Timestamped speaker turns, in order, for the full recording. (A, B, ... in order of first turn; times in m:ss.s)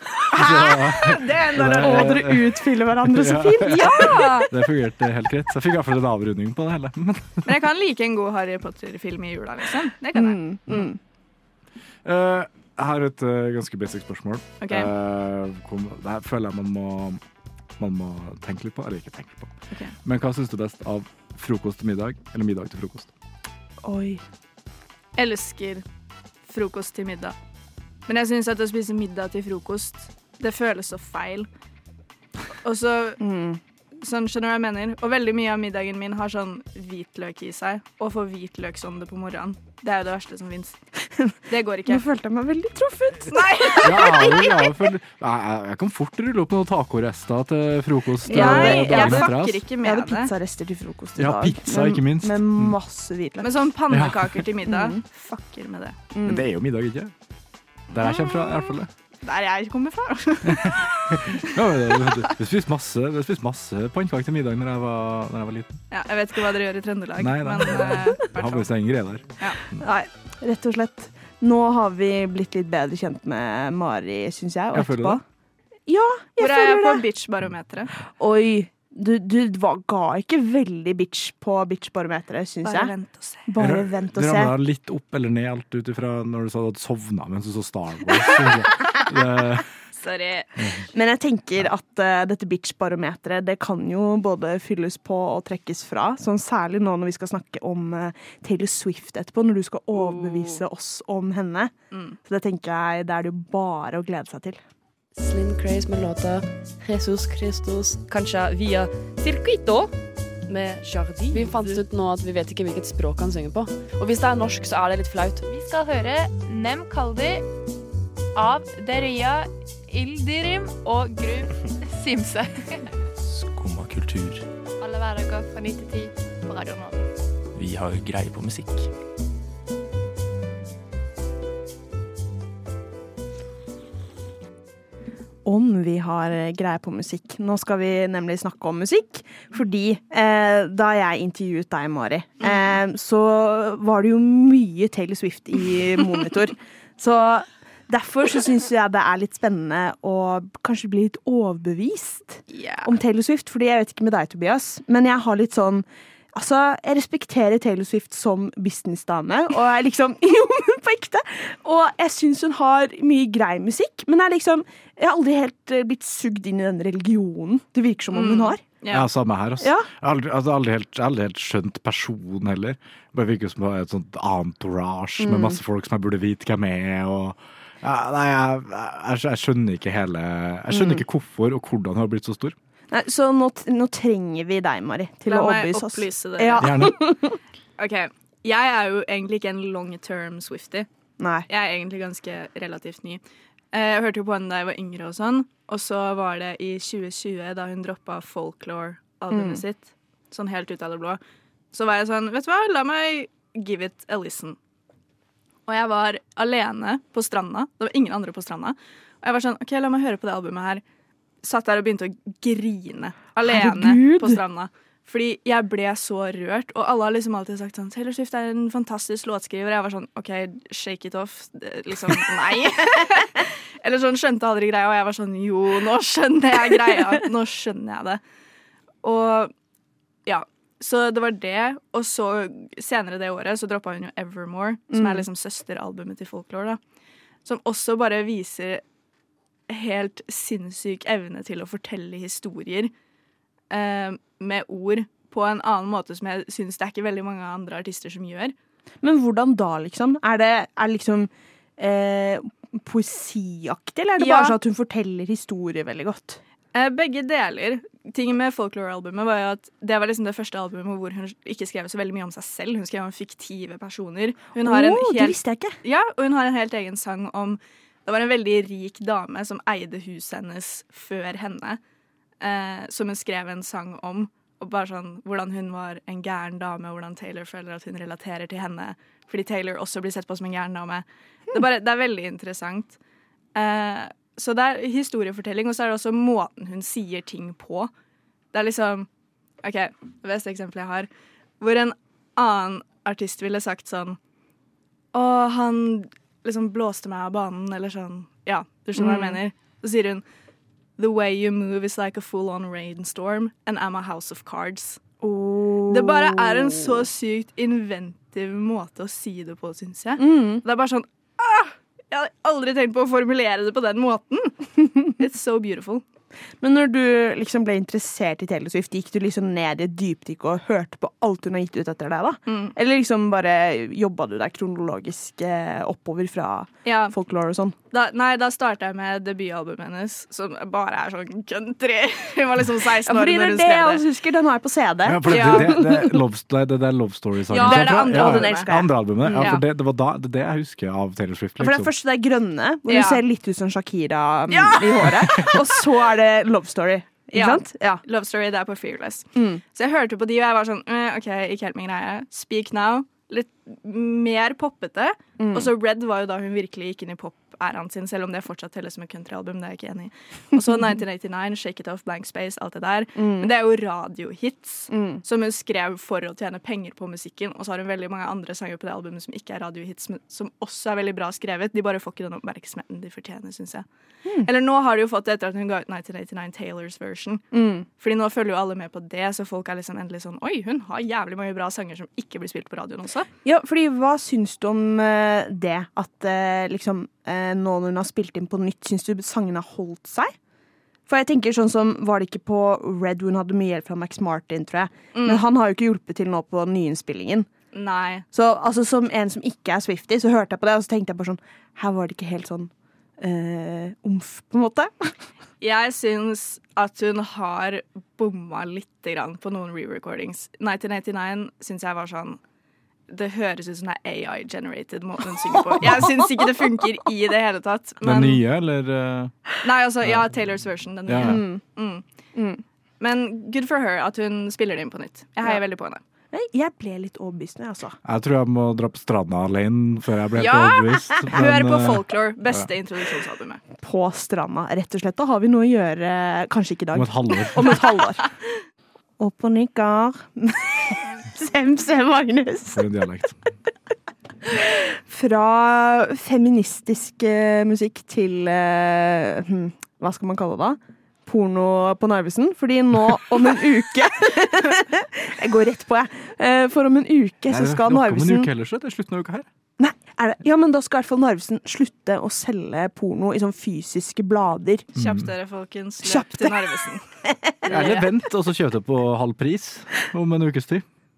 0:00.2-0:04.4 A
0:00.3-0:02.5 B
0:03.0-0:07.5 B
0:03.7-0:04.5 C
0:07.4-0:10.4 C
0:10.1-0:11.0 A
0:12.0-0:17.2 B
0:14.6-0:14.9 C
0:17.8-0:19.5 B
0:20.0-0:23.1 B
0:23.8-0:24.2 A
0:25.2-0:25.8 C
0:26.4-0:27.4 C
0:28.1-0:31.5 C
0:32.6-0:33.2 C
0:33.2-0:33.6 A
0:34.0-0:40.8 C
0:41.2-0:44.2 A
0:41.5-0:42.0 C
0:43.3-0:44.7 C
0:43.8-0:49.6 B
0:48.3-0:50.3 C
0:48.3-0:53.7 A
0:51.2-0:52.7 B
0:53.4-0:56.0 C
0:53.9-0:54.4 B
0:54.6-0:55.0 A
0:56.1-0:56.5 A
0:56.2-0:57.1 B
0:57.9-0:58.9 B
0:59.2-1:01.4 C
1:00.4-1:05.8 B
1:05.9-1:08.7 C
1:07.2-1:09.2 B
1:09.8-1:15.2 A
1:14.7-1:15.2 B
1:15.9-1:17.0 A
1:16.4-1:17.9 C
1:18.2-1:22.9 A
1:22.6-1:23.5 C
1:23.4-1:24.5 A
1:23.6-1:29.6 B
1:29.9-1:30.5 C
1:30.6-1:30.8 B
1:30.9-1:41.7 A
1:39.9-1:40.6 C
1:41.9-1:42.2 C
1:42.2-1:44.6 A
1:45.1-1:49.9 D
1:50.4-1:55.4 D
1:55.5-1:57.5 E
1:58.4-2:02.8 E
2:03.2-2:04.4 F
2:04.8-2:07.1 E
2:07.5-2:08.9 F
2:15.4-2:48.6 A
2:22.4-2:22.8 C
2:32.5-2:32.9 C
2:48.1-2:49.1 C
2:48.9-3:02.5 B
2:49.6-2:49.9 A
2:55.2-2:55.6 A
3:00.7-3:01.0 A
3:02.9-3:07.4 A
3:05.3-3:07.0 C
3:06.6-3:07.0 B
3:07.8-3:10.9 C
3:11.2-3:11.5 A
3:11.5-3:21.2 C
3:19.3-3:19.6 A
3:21.7-3:24.6 C
3:25.7-3:30.8 C
3:31.4-3:48.2 C
3:33.4-3:34.4 A
3:49.0-3:49.5 C
3:50.2-3:56.8 C
3:54.9-3:55.2 A
3:57.4-3:58.8 C
3:59.7-4:02.9 C
4:03.7-4:08.5 C
4:09.0-4:16.4 A
4:14.2-4:14.6 C
4:16.7-4:31.8 C
4:24.6-4:25.8 A
4:32.4-4:43.0 C
4:43.5-4:47.9 C
4:48.5-4:49.1 C
4:49.6-4:51.1 C
4:51.6-4:54.2 C
4:55.1-5:00.2 C
4:59.0-4:59.4 A
5:01.0-5:05.0 C
5:05.2-5:07.1 A
5:05.9-5:16.0 C
5:10.2-5:10.6 A
5:16.6-5:27.8 A
5:22.5-5:22.7 C
5:26.8-5:27.1 C
5:27.9-5:34.0 C
5:33.1-5:36.2 A
5:35.0-5:41.9 B
5:35.3-5:35.8 C
5:37.5-5:38.7 C
5:37.6-5:39.5 A
5:39.3-5:39.6 C
5:41.6-5:48.0 A
5:42.9-5:43.2 C
5:44.5-5:45.8 C
5:47.3-6:13.8 C
5:49.4-5:49.6 A
5:55.4-5:55.7 A
6:03.2-6:03.5 A
6:04.9-6:05.2 A
6:14.4-6:17.4 C
6:17.5-6:17.9 A
6:18.0-6:23.3 C
6:23.4-6:30.3 A
6:31.1-6:37.5 A
6:35.1-6:35.4 C
6:37.7-6:38.2 C
6:38.3-6:45.1 A
6:45.6-6:52.4 C
6:53.1-6:58.4 C
6:55.7-6:56.5 A
6:58.0-6:59.3 B
6:59.6-7:02.0 C
7:01.1-7:01.4 B
7:01.2-7:01.6 A
7:02.3-7:02.6 A
7:03.0-7:06.0 C
7:06.3-7:08.0 A
7:08.0-7:12.7 B
7:10.4-7:13.6 C
7:13.8-7:18.3 A
7:16.9-7:17.8 B
7:19.2-7:22.8 A
7:22.7-7:23.4 B
7:24.4-7:38.5 A
7:37.5-7:39.5 B
7:39.8-7:44.9 A
7:44.9-7:47.1 C
7:45.0-7:45.3 B
7:46.0-7:46.8 A
7:47.6-7:48.1 C
7:47.7-7:50.8 B